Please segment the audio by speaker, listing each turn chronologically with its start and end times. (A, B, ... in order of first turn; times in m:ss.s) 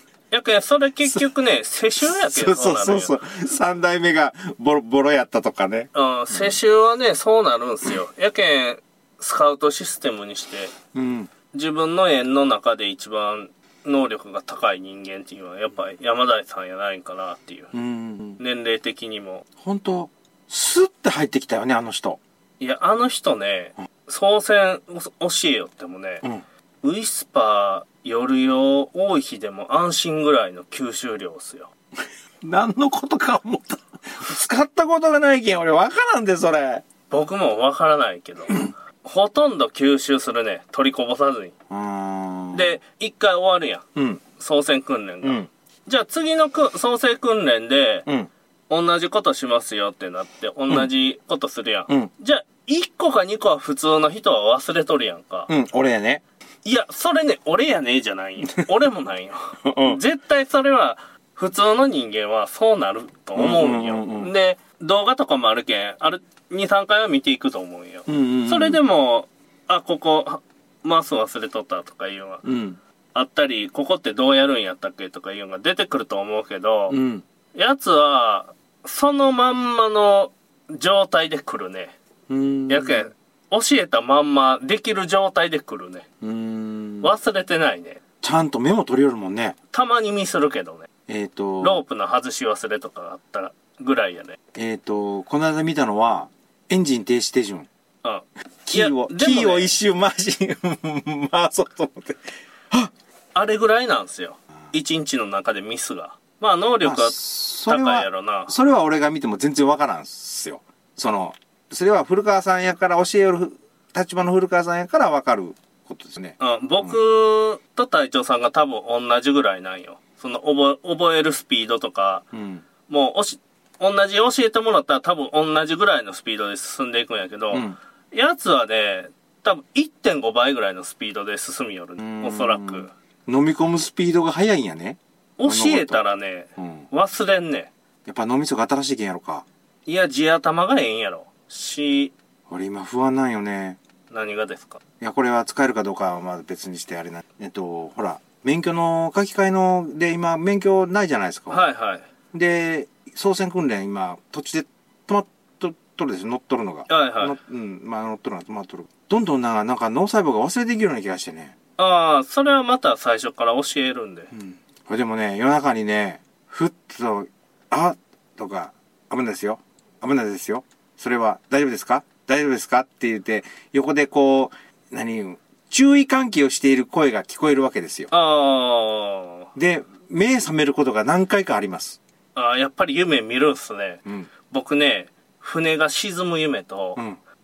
0:00.3-0:03.2 A
0:02.0-0:06.6 B
0:05.9-0:10.7 A
0:10.9-0:11.3 B
0:11.5-0:17.7 A
0:17.7-0:18.4 B
0:18.4-0:19.4 A
0:19.6-0:22.2 B
0:22.6-0:26.2 A
0:26.8-0:31.7 A
0:32.4-0:36.8 B
0:37.1-0:41.5 A
0:41.7-0:42.8 B
0:42.5-0:48.0 A
0:43.9-0:44.2 B
0:48.7-0:55.5 A
0:55.5-0:56.2 B
0:56.6-1:12.4 A
0:59.6-1:00.0 B
1:03.4-1:04.3 B
1:08.1-1:08.8 B
1:12.4-1:12.8 B
1:13.1-1:17.0 A
1:16.9-1:17.2 B
1:17.5-1:21.9 A
1:22.3-1:23.1 B
1:22.7-1:26.0 A
1:26.2-1:27.1 B
1:27.0-1:28.0 A
1:28.2-1:29.6 B
1:29.7-1:30.9 A
1:31.1-1:31.8 B
1:31.6-1:34.4 A
1:34.5-1:37.7 B
1:38.0-1:39.7 A
1:38.6-1:42.9 B
1:43.3-1:48.5 A
1:46.8-1:57.0 B
1:56.4-2:02.2 A
2:02.3-2:02.6 B
2:02.9-2:12.9 A
2:07.5-2:07.8 B
2:12.0-2:16.0 B
2:15.4-2:17.7 A
2:16.6-2:16.8 B
2:18.0-2:19.4 B
2:19.8-2:22.1 A
2:22.5-2:23.8 B
2:24.1-2:24.8 A
2:25.0-2:31.6 B
2:31.5-2:32.0 A
2:32.3-2:41.5 B
2:36.9-2:37.3 A
2:41.8-2:44.3 A
2:44.3-2:58.1 B
2:58.1-2:59.5 A
2:59.6-3:02.0 B
3:02.3-3:07.0 A